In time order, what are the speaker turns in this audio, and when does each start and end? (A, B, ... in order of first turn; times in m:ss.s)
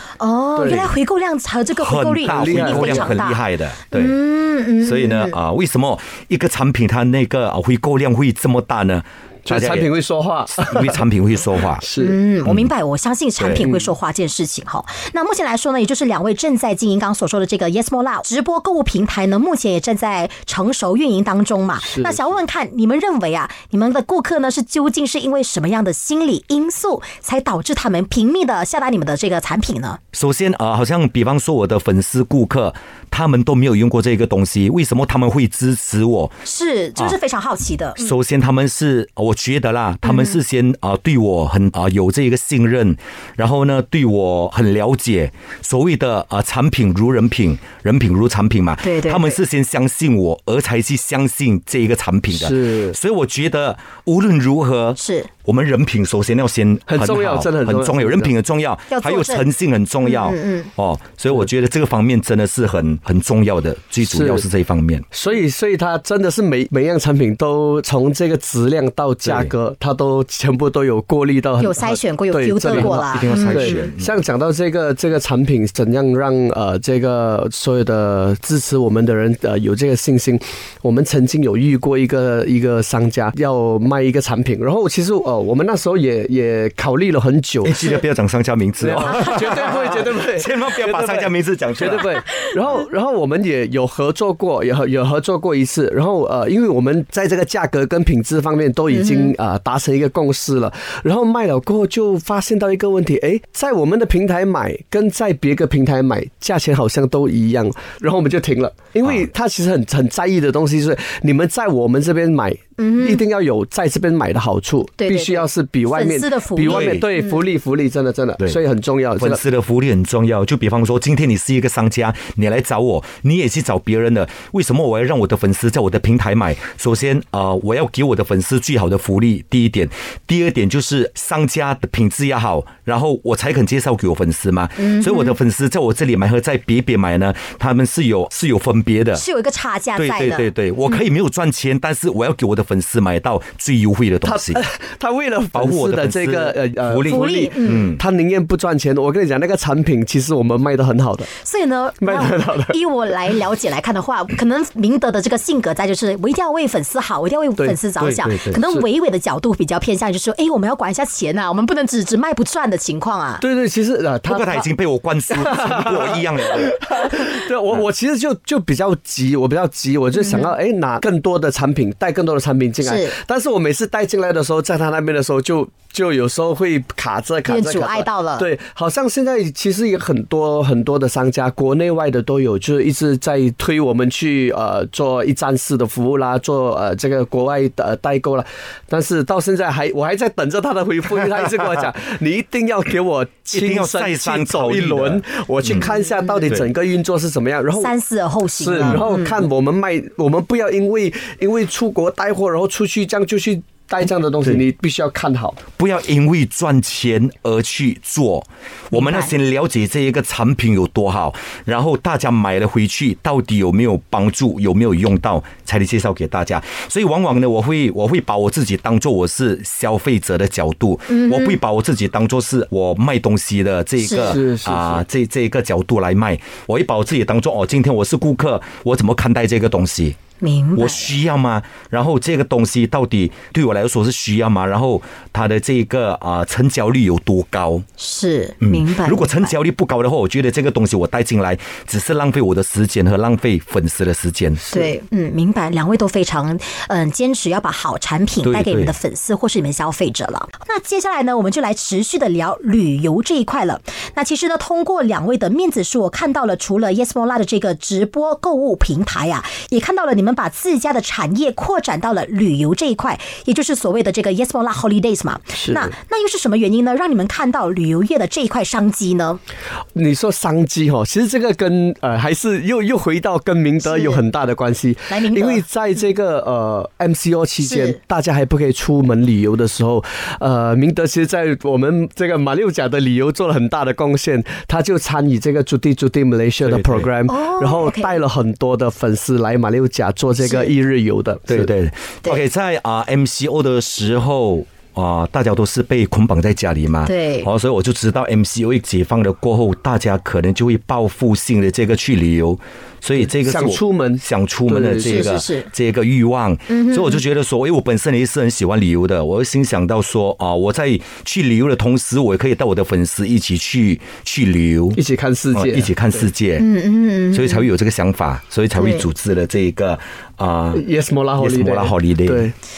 0:00.2-0:05.4 A
0:00.6-0:00.9 B
0:01.8-0:04.1 C
0:02.2-0:03.2 B
0:04.8-0:09.9 C
0:09.4-0:11.0 B
0:10.6-0:11.8 C
0:11.8-0:12.2 B
0:12.0-0:30.0 A
0:13.4-0:13.6 C
0:13.6-0:13.9 B
0:21.9-0:22.3 B
0:30.1-0:36.3 C
0:36.4-0:38.1 A
0:38.0-1:05.0 C
0:40.0-0:40.4 A
0:48.8-0:49.4 A
0:52.3-0:53.0 B
0:55.0-0:55.3 A
0:56.9-0:58.3 B
0:58.9-0:59.5 A
1:00.0-1:00.7 A
1:04.0-1:04.4 B
1:05.1-1:27.9 B
1:09.2-1:09.5 C
1:11.6-1:13.8 A
1:12.7-1:14.1 C
1:27.6-1:32.1 C
1:28.8-1:59.4 B
1:38.9-1:39.3 A
1:49.0-1:49.3 C
1:52.8-1:53.2 A
1:55.0-1:57.4 A
1:56.6-1:57.1 C
1:59.2-2:19.2 C
2:14.8-2:15.3 A
2:19.2-2:20.5 A
2:20.0-2:24.6 C
2:24.2-2:31.3 B
2:25.5-2:28.0 C
2:27.1-2:27.9 A
2:31.4-2:43.4 A
2:32.0-2:32.7 B
2:38.0-2:38.6 C
2:43.4-2:44.7 B
2:44.2-2:47.1 C
2:45.3-3:17.9 B
2:50.2-2:50.5 A
2:52.8-2:53.2 A
2:57.4-2:58.5 A
3:13.5-3:15.9 C
3:17.8-3:19.3 A
3:18.6-3:25.6 B
3:18.8-3:19.1 C
3:25.8-3:50.2 C
3:28.9-3:29.3 A
3:41.1-3:41.6 A
3:44.0-3:44.4 A
3:44.2-3:45.0 B
3:50.4-3:51.1 A
3:50.7-3:57.8 C
3:58.0-3:59.5 A
3:58.6-4:04.7 C
4:04.7-4:29.4 A
4:08.4-4:08.9 C
4:25.6-4:25.9 B
4:29.9-4:51.7 B
4:33.8-4:34.2 A
4:35.1-4:35.6 A
4:37.6-4:38.0 A
4:46.6-4:47.1 C
4:47.3-4:48.2 A
4:50.4-4:50.7 A
4:51.5-5:15.0 C
4:57.0-4:57.5 A
5:03.2-5:05.3 B
5:05.0-5:05.7 A
5:06.7-5:07.2 A
5:15.0-5:15.9 B
5:15.5-5:16.7 C
5:16.6-5:17.6 A
5:17.3-5:20.8 C
5:18.8-5:19.0 A
5:20.7-5:22.5 B
5:21.4-5:22.5 C